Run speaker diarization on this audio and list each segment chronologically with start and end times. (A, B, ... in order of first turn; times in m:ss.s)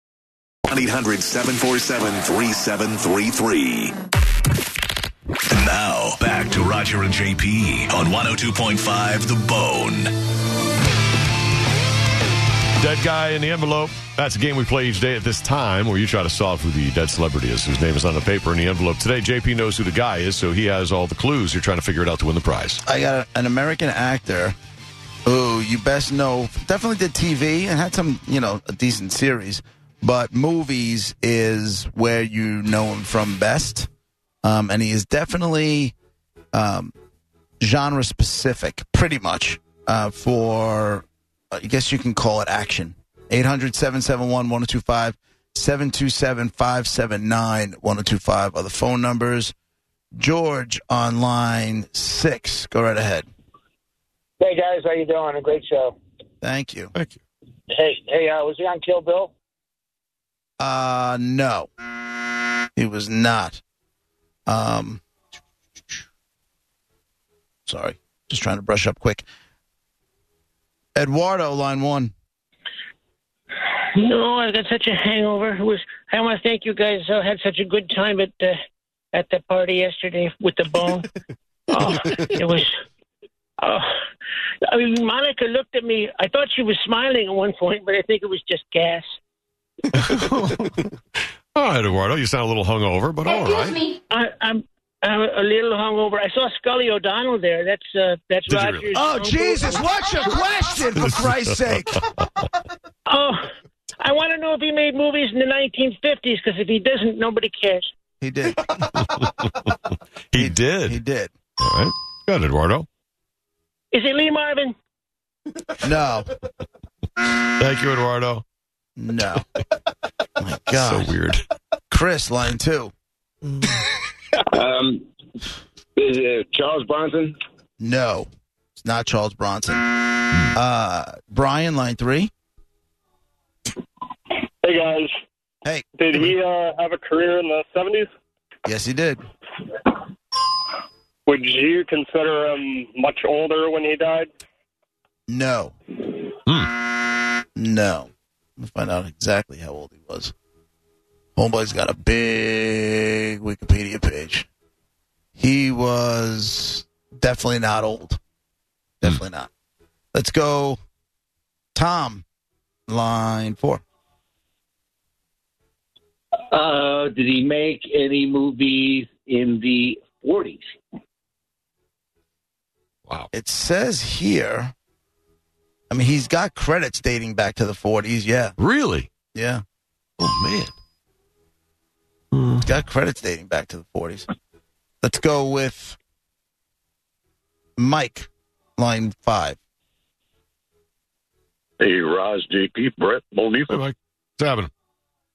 0:00.7-0:04.0 A
0:05.5-0:10.1 A
0:12.8-0:22.8 B
0:22.8-0:24.6 C
0:25.3-0:33.9 C
0:34.4-0:35.9 C
0:36.5-0:36.9 C
0:37.6-0:49.5 C
0:50.2-0:53.3 C
0:54.4-0:56.0 D
0:56.4-0:56.9 C
0:57.7-0:59.3 D
1:00.6-1:01.7 C
1:02.8-1:03.6 C
1:04.5-1:05.0 C
1:07.7-1:09.2 C
1:11.0-1:12.1 C
1:14.0-1:18.6 E
1:19.1-1:21.1 E
1:21.7-1:22.7 E
1:23.6-1:23.9 E
1:24.7-1:29.1 E
1:30.0-1:30.9 B
1:31.6-1:33.8 B
1:34.1-1:39.8 E
1:38.5-1:39.0 B
1:38.9-1:42.2 C
1:41.0-1:42.3 B
1:43.1-1:47.9 E
1:48.2-1:49.1 C
1:49.0-1:49.7 B
1:50.3-1:51.0 B
1:50.4-1:51.3 C
1:51.6-1:52.9 B
1:53.9-1:54.8 E
1:55.8-1:56.3 C
1:57.4-1:58.4 B
1:59.0-1:59.5 C
2:00.4-2:01.2 C
2:00.7-2:01.4 B
2:01.9-2:02.9 C
2:04.6-2:05.0 D
2:06.0-2:07.3 D
2:07.8-2:12.3 C
2:14.6-2:15.1 F
2:16.0-2:18.1 F
2:18.7-2:19.2 C
2:21.3-2:24.3 F
2:25.3-2:25.8 C
2:26.5-2:26.7 B
2:27.6-2:30.3 C
2:31.4-2:34.5 C
2:35.4-2:38.2 C
2:39.0-2:39.5 C
2:40.1-2:40.8 C
2:41.8-2:42.2 C
2:42.9-2:43.8 C
2:46.5-2:50.7 G
2:53.3-2:54.7 C
2:55.9-2:58.6 C
2:58.6-2:59.1 B
2:59.3-2:59.6 C
3:00.2-3:00.7 B
3:02.4-3:02.6 B
3:02.6-3:04.3 C
3:05.0-3:06.0 C
3:07.8-3:09.6 C
3:11.8-3:13.8 H
3:13.7-3:14.7 B